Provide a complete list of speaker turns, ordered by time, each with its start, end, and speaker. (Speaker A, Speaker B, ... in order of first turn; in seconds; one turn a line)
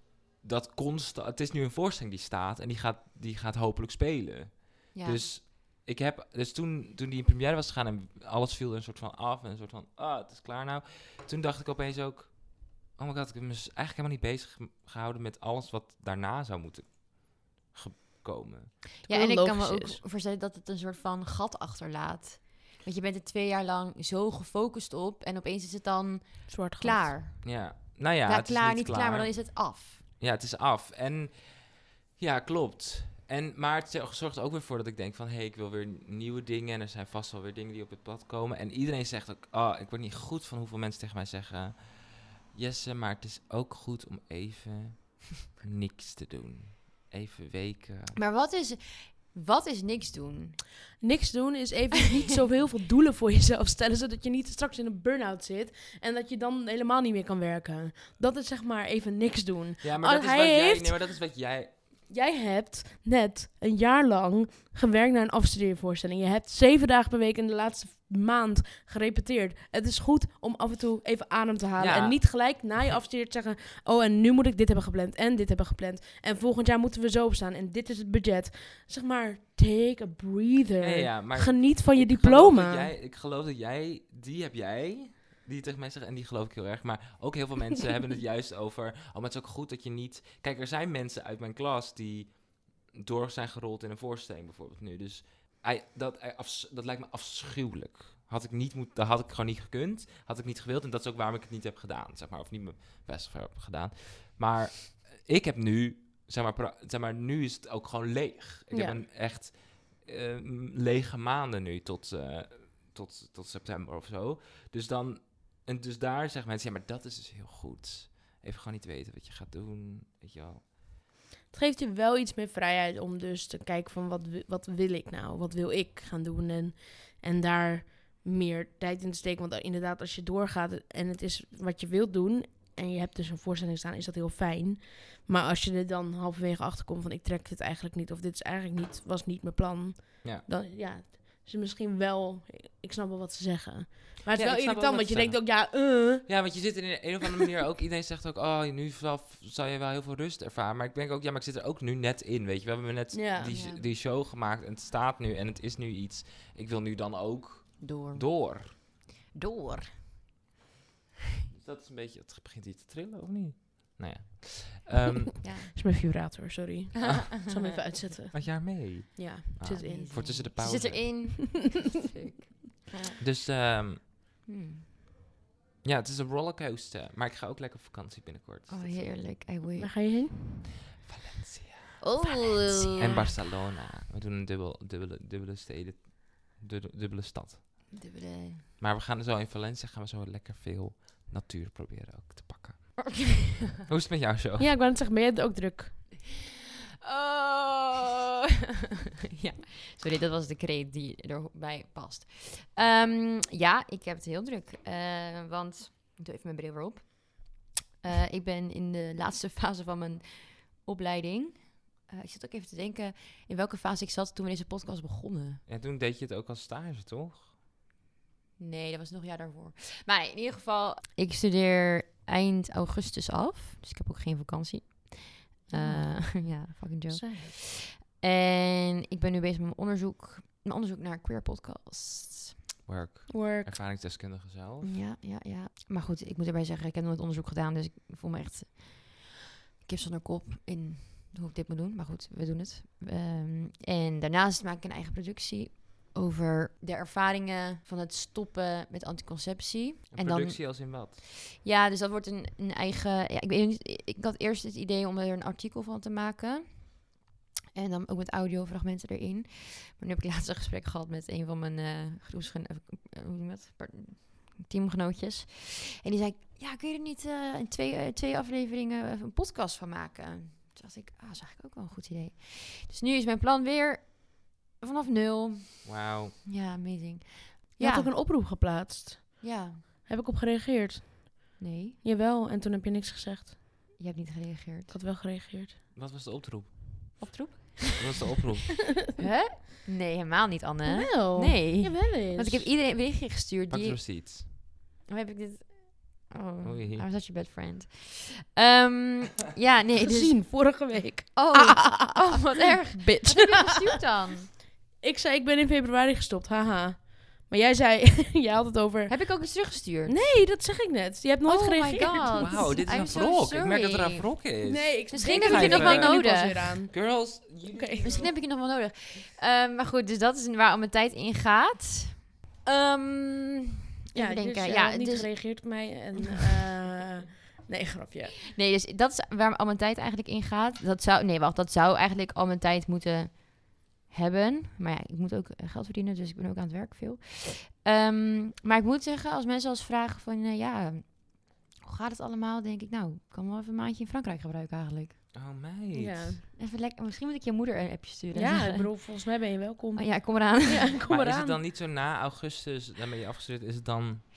Speaker A: 0.4-18.8
Speaker B: 4.9-5.2
Speaker B: 19.0-30.0
Speaker C: 19.1-20.0
Speaker C: 26.5-27.1
Speaker A: 27.4-48.2
Speaker B: 48.1-50.6
Speaker C: 51.0-61.1
Speaker A: 59.8-61.8
Speaker C: 62.1-82.9
Speaker A: 71.8-72.2
Speaker A: 80.8-120.7
Speaker C: 108.7-109.0
Speaker C: 121.5-146.4
Speaker A: 144.3-158.7
Speaker C: 153.1-153.6
Speaker B: 153.5-153.9
Speaker B: 157.8-160.1
Speaker A: 161.5-165.3
Speaker B: 165.4-165.7
Speaker C: 165.8-170.4
Speaker B: 167.0-167.8
Speaker A: 168.3-171.3
Speaker B: 169.6-173.2
Speaker A: 173.2-174.0
Speaker B: 174.4-174.8
Speaker A: 175.8-179.1
Speaker B: 178.7-180.4
Speaker C: 179.8-180.3
Speaker A: 181.0-182.0
Speaker B: 182.0-183.4
Speaker C: 182.2-183.3
Speaker A: 183.0-187.6
Speaker B: 187.9-188.7
Speaker A: 188.8-193.1
Speaker B: 193.1-193.5
Speaker A: 193.8-194.7
Speaker C: 194.6-196.1
Speaker B: 197.0-198.1
Speaker B: 199.3-215.6
Speaker A: 215.7-217.5
Speaker B: 218.6-232.6
Speaker C: 225.7-226.6
Speaker C: 227.1-227.5
Speaker A: 232.8-234.9
Speaker C: 233.3-233.7
Speaker B: 234.8-239.3
Speaker B: 239.8-257.1
Speaker A: 250.1-251.1
Speaker B: 257.7-278.1
Speaker A: 275.8-276.3
Speaker C: 277.8-283.6
Speaker B: 279.4-279.8
Speaker B: 281.6-282.0
Speaker B: 284.0-284.9
Speaker C: 284.9-285.8
Speaker A: 285.9-287.3
Speaker B: 287.2-288.2
Speaker A: 287.9-288.9
Speaker B: 289.1-300.7
Speaker C: 290.8-292.7
Speaker A: 293.7-294.4
Speaker A: 296.6-297.1
Speaker C: 300.0-303.9
Speaker B: 301.3-304.5
Speaker C: 305.0-312.9
Speaker B: 309.1-310.2
Speaker B: 311.4-314.5
Speaker A: 312.4-318.4
Speaker C: 314.6-318.3
Speaker B: 315.1-316.8
Speaker B: 318.0-325.6
Speaker C: 324.1-328.4
Speaker B: 328.5-345.2
Speaker A: 345.3-346.4
Speaker C: 345.9-346.4
Speaker B: 346.6-349.1
Speaker C: 348.3-351.6
Speaker B: 349.9-350.9
Speaker A: 351.1-354.2